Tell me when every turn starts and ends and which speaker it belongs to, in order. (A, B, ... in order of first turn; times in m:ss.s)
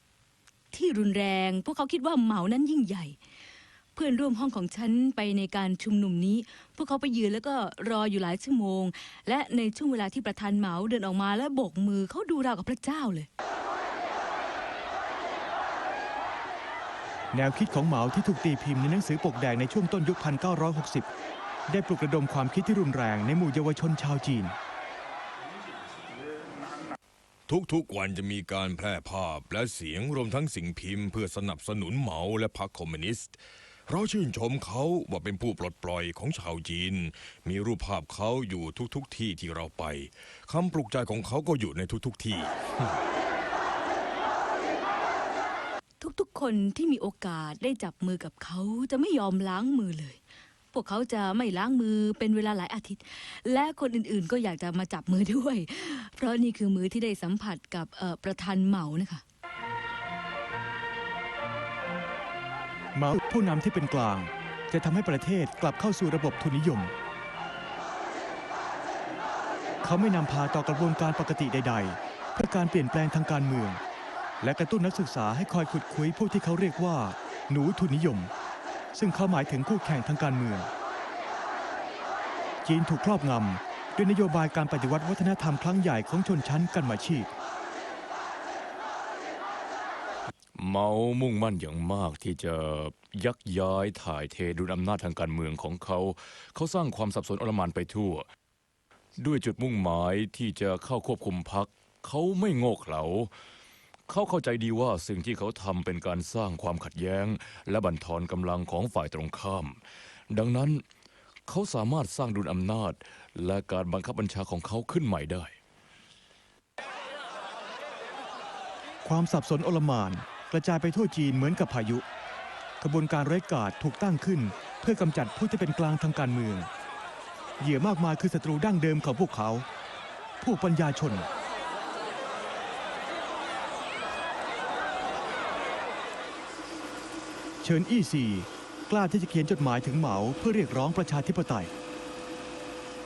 0:00.7-0:03.2 A
0:03.9-0:13.3 A
0:17.3-0:21.1 B
0:21.7-0:24.6 B
0:27.5-0:33.4 C
0:33.9-0:42.5 C
0:46.0-0:50.2 A
0:50.7-0:59.2 A
1:03.0-1:06.9 B
1:09.8-1:13.8 B
1:14.4-1:18.3 B
1:18.9-1:20.7 B
1:22.6-1:27.3 B
1:30.6-1:38.3 D
1:39.2-1:43.3 D
1:44.1-1:49.8 D
1:50.3-1:50.8 D
1:51.5-1:55.5 D
1:59.0-2:02.0 B
2:02.8-2:06.7 B
2:07.6-2:09.6 B
2:10.4-2:11.3 B
2:17.6-2:21.7 B